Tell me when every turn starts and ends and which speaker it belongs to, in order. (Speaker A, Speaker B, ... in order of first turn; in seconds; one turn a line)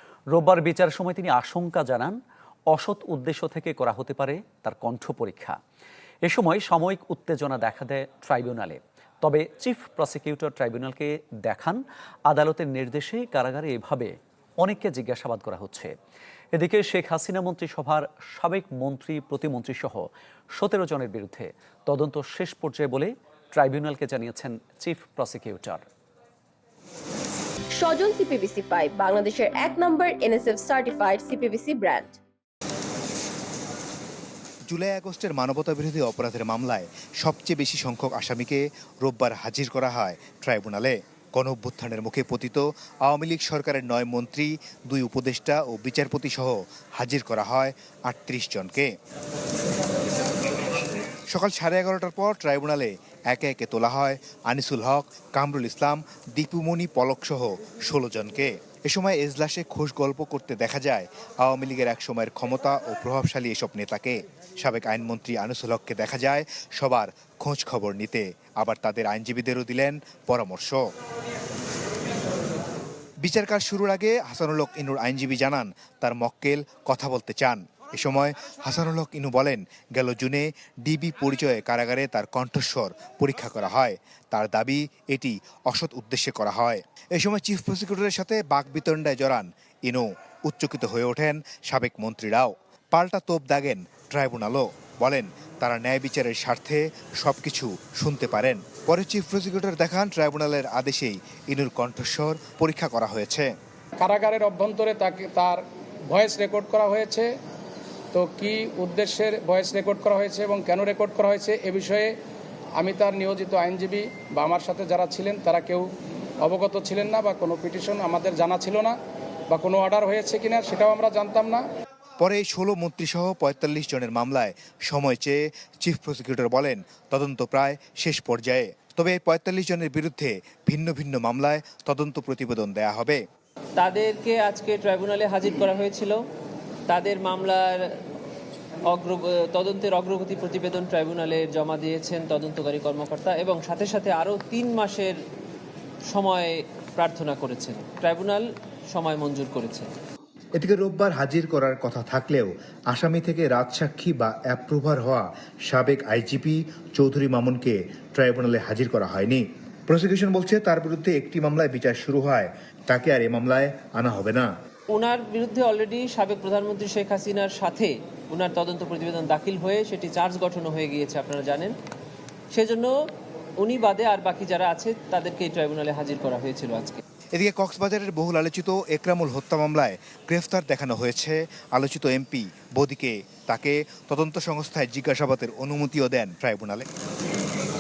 Speaker A: 0.3-2.2
Speaker A: 2.7-5.6
Speaker A: 6.2-15.9
Speaker A: 16.6-25.8
Speaker B: 27.7-32.2
Speaker C: 34.7-48.9
Speaker C: 51.3-70.9
Speaker C: 73.2-103.5
Speaker D: 104.0-107.3
Speaker D: 108.1-112.1
Speaker D: 112.8-115.9
Speaker D: 116.4-119.0
Speaker D: 119.5-121.6
Speaker C: 122.2-133.2
Speaker E: 133.8-136.2
Speaker E: 136.9-137.8
Speaker E: 138.9-145.2
Speaker E: 146.1-149.9
Speaker C: 150.6-164.5
Speaker E: 164.9-171.8
Speaker E: 172.5-172.9
Speaker E: 173.6-177.0
Speaker C: 177.3-186.8